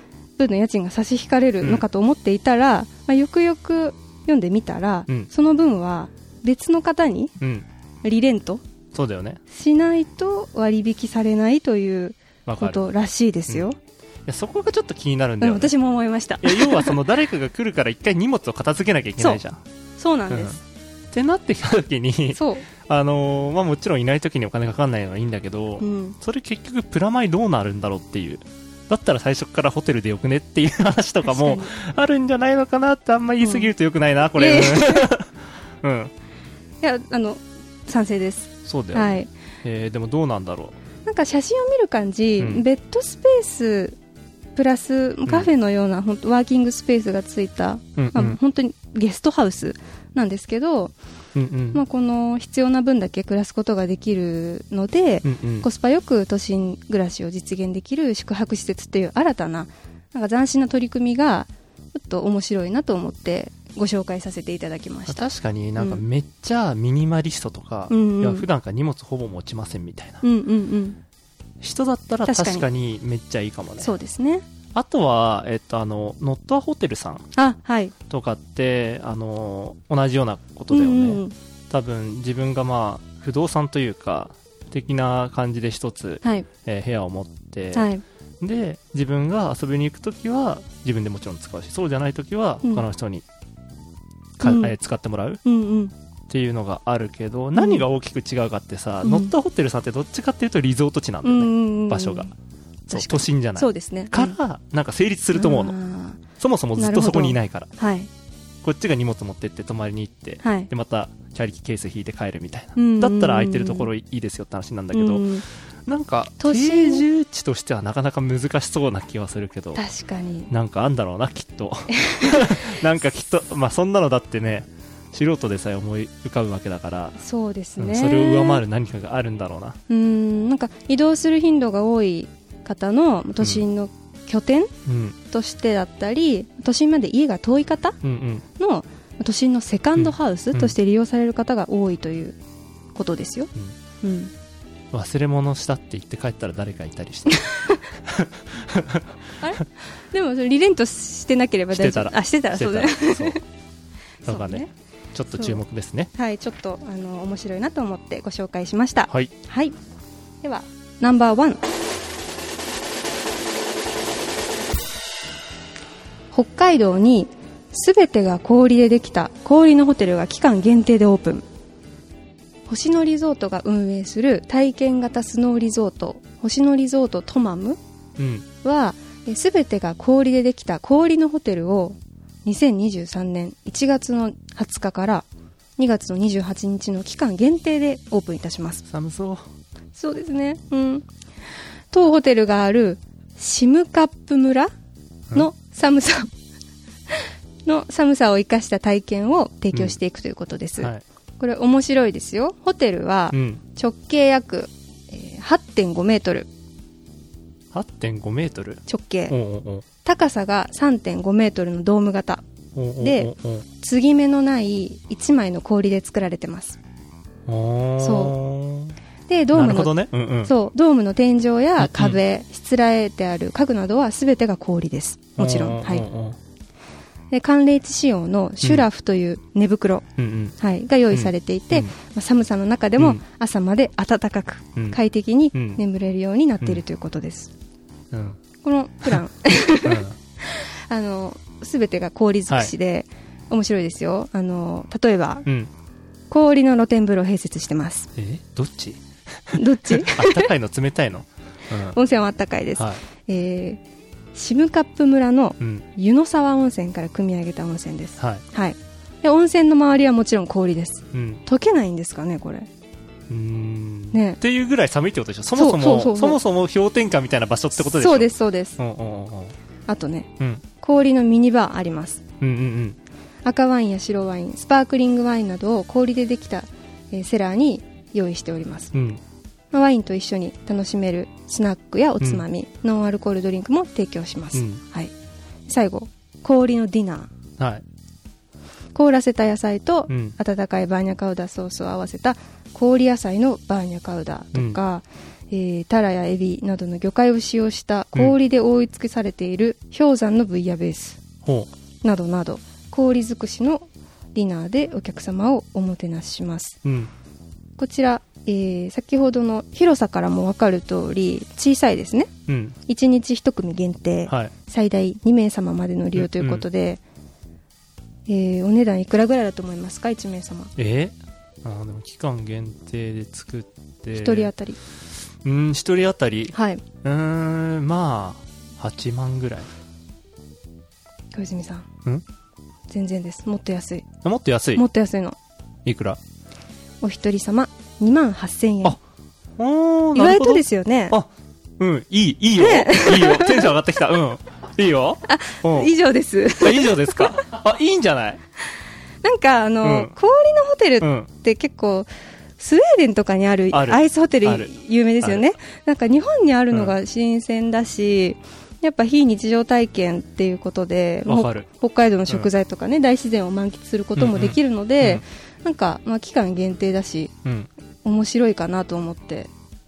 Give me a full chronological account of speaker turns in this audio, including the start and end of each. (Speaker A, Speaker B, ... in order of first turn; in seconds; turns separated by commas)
Speaker A: 0.4-7.3, Speaker B: 7.4-7.7, Speaker A: 8.0-8.6, Speaker B: 8.9-9.4, Speaker A: 9.5-13.8, Speaker B: 12.5-12.8, Speaker B: 14.2-15.7, Speaker A: 15.4-17.0, Speaker B: 16.4-19.6, Speaker A: 20.0-20.6, Speaker B: 20.3-20.6, Speaker B: 21.1-36.1, Speaker A: 22.3-22.7, Speaker A: 25.8-26.2, Speaker A: 31.2-31.7, Speaker A: 33.4-33.7, Speaker A: 34.4-35.1, Speaker A: 36.8-39.3, Speaker B: 38.7-40.8, Speaker A: 41.1-44.0, Speaker A: 44.5-50.9, Speaker B: 48.0-48.4, Speaker B: 51.4-51.8, Speaker A: 51.7-66.0, Speaker B: 55.2-55.7, Speaker B: 65.1-70.2, Speaker A: 67.9-68.5, Speaker A: 70.2-71.0, Speaker B: 71.6-73.9, Speaker A: 72.2-72.7, Speaker A: 73.8-74.5, Speaker B: 74.7-77.3, Speaker A: 77.4-77.9, Speaker B: 78.1-87.9, Speaker A: 80.7-81.3, Speaker A: 87.7-88.0, Speaker B: 88.4-93.2, Speaker A: 94.4-94.8, Speaker B: 94.4-95.4, Speaker A: 95.5-95.9, Speaker B: 96.3-102.3, Speaker A: 97.6-97.8, Speaker A: 99.0-99.3, Speaker A: 101.2-102.3, Speaker A: 102.9-104.4, Speaker B: 102.9-105.8, Speaker A: 105.3-106.2, Speaker B: 106.4-107.7, Speaker A: 106.8-108.1, Speaker B: 108.6-119.8, Speaker A: 110.4-110.7, Speaker A: 112.8-113.9, Speaker A: 114.9-115.5, Speaker A: 116.4-117.0, Speaker A: 119.8-120.5, Speaker B: 120.5-127.2, Speaker A: 122.0-122.6, Speaker A: 127.2-128.6, Speaker B: 127.8-129.8, Speaker A: 129.9-134.7, Speaker B: 134.9-135.2, Speaker A: 135.3-138.0, Speaker B: 138.0-138.4, Speaker A: 138.6-142.4, Speaker B: 140.0-140.8, Speaker A: 142.9-143.5, Speaker A: 144.0-144.3, Speaker B: 144.9-149.2, Speaker A: 147.3-147.8, Speaker A: 149.4-153.4, Speaker B: 151.7-153.4, Speaker A: 154.2-154.7, Speaker B: 154.2-156.1, Speaker A: 156.1-159.8, Speaker A: 160.4-161.6, Speaker A: 166.3-171.4, Speaker A: 172.7-177.8, Speaker B: 178.2-178.4, Speaker A: 178.6-185.2, Speaker A: 185.8-188.8, Speaker B: 188.9-189.5, Speaker A: 190.0-191.1, Speaker A: 191.9-194.7, Speaker A: 195.3-196.3, Speaker A: 197.1-206.5, Speaker B: 203.3-203.6, Speaker B: 207.7-209.8, Speaker A: 208.9-209.3, Speaker A: 210.0-212.4, Speaker B: 212.8-213.7, Speaker A: 213.0-216.8, Speaker B: 217.5-219.0, Speaker A: 218.0-218.4, Speaker A: 219.3-226.1, Speaker B: 219.5-220.5, Speaker B: 221.8-222.2, Speaker B: 225.4-226.4, Speaker A: 227.3-237.5, Speaker B: 230.2-230.6, Speaker B: 231.1-231.9, Speaker B: 235.5-235.8, Speaker B: 238.1-238.4, Speaker A: 238.6-245.5, Speaker B: 239.8-240.2, Speaker B: 245.5-245.7, Speaker A: 246.3-248.1, Speaker B: 248.2-252.0, Speaker A: 249.5-250.5, Speaker A: 251.9-253.8, Speaker B: 252.8-253.0, Speaker A: 254.3-262.7, Speaker B: 255.6-255.9, Speaker B: 261.1-261.4, Speaker B: 263.3-269.5, Speaker A: 264.1-264.4, Speaker A: 265.6-266.4, Speaker A: 267.8-268.8, Speaker A: 269.9-272.2, Speaker B: 272.4-273.0, Speaker A: 273.4-278.9, Speaker B: 278.9-279.2, Speaker A: 279.7-285.1, Speaker B: 282.2-282.4, Speaker B: 284.6-284.8, Speaker A: 285.7-287.3, Speaker B: 287.6-287.8, Speaker A: 288.9-301.2, Speaker B: 290.1-290.4, Speaker B: 294.5-294.8, Speaker B: 301.4-301.7, Speaker A: 302.0-306.8, Speaker B: 306.9-307.1, Speaker A: 307.8-312.3, Speaker B: 312.5-312.8, Speaker A: 312.9-317.0, Speaker B: 314.3-314.5, Speaker B: 316.1-316.7, Speaker A: 318.3-320.7, Speaker B: 320.8-324.5, Speaker A: 324.1-324.8, Speaker B: 325.4-329.7, Speaker A: 326.5-326.8, Speaker A: 331.3-331.9, Speaker A: 332.9-334.1, Speaker B: 334.2-334.8, Speaker A: 334.8-335.4, Speaker B: 335.9-336.2, Speaker A: 337.0-339.0, Speaker B: 339.6-345.9, Speaker A: 340.1-341.2, Speaker A: 342.6-343.7, Speaker A: 345.3-347.3, Speaker B: 346.6-348.4, Speaker A: 349.2-367.3, Speaker B: 349.8-350.1, Speaker B: 351.0-351.3, Speaker B: 353.7-354.7, Speaker B: 361.2-361.7, Speaker B: 364.2-365.2, Speaker A: 368.0-369.5